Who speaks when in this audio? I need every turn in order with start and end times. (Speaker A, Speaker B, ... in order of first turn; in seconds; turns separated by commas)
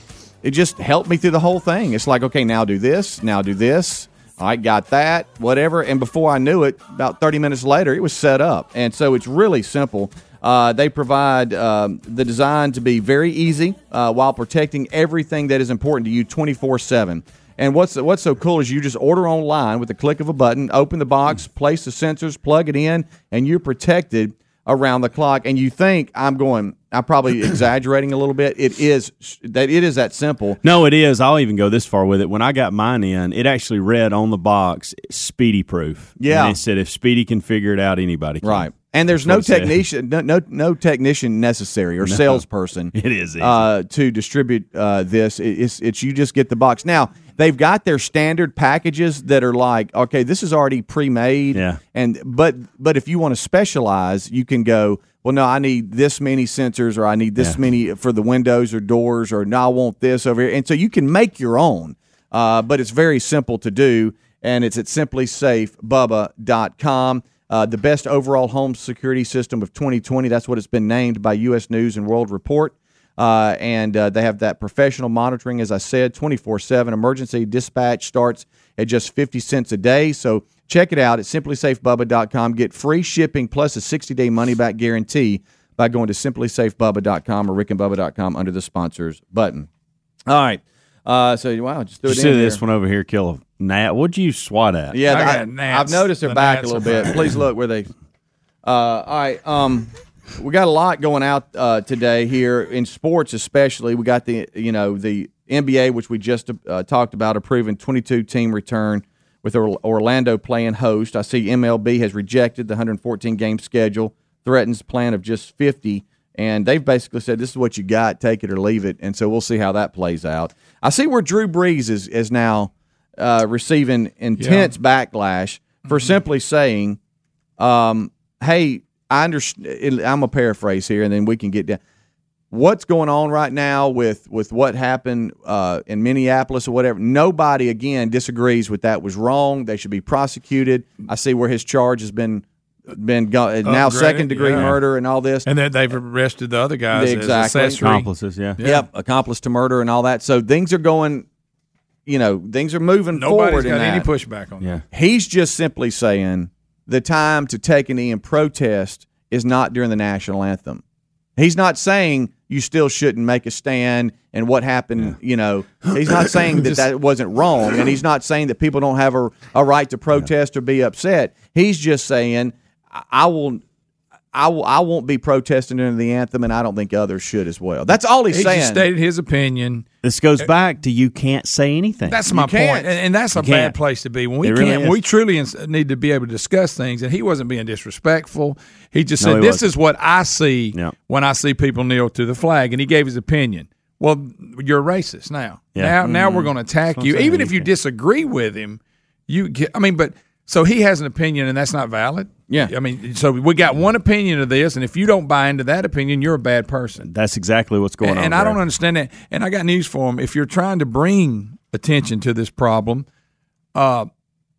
Speaker A: 0.4-30.6, Speaker B: 30.6-39.8, Speaker A: 36.2-36.6, Speaker A: 38.4-89.7, Speaker B: 42.0-42.4, Speaker B: 42.9-43.7, Speaker B: 51.5-51.8, Speaker A: 90.2-92.6, Speaker B: 92.0-95.1, Speaker A: 94.9-97.9, Speaker C: 95.0-97.3, Speaker A: 98.6-127.0, Speaker C: 124.4-124.7, Speaker C: 125.9-126.1, Speaker A: 127.6-131.8, Speaker A: 132.5-145.5, Speaker C: 143.6-144.8, Speaker C: 145.4-148.8, Speaker A: 146.9-147.9, Speaker B: 147.8-148.6, Speaker A: 148.6-151.2, Speaker A: 152.1-154.1, Speaker C: 153.1-154.7, Speaker A: 154.9-160.8, Speaker A: 161.4-173.6, Speaker A: 174.3-178.8, Speaker C: 178.3-179.8, Speaker B: 180.0-182.2, Speaker C: 182.1-207.0, Speaker A: 182.3-182.9, Speaker B: 183.3-183.8, Speaker B: 184.4-185.0, Speaker B: 189.2-189.7, Speaker B: 195.8-196.4, Speaker A: 196.0-196.4, Speaker B: 196.9-197.7, Speaker B: 207.0-208.6, Speaker C: 208.0-213.1, Speaker C: 213.7-214.1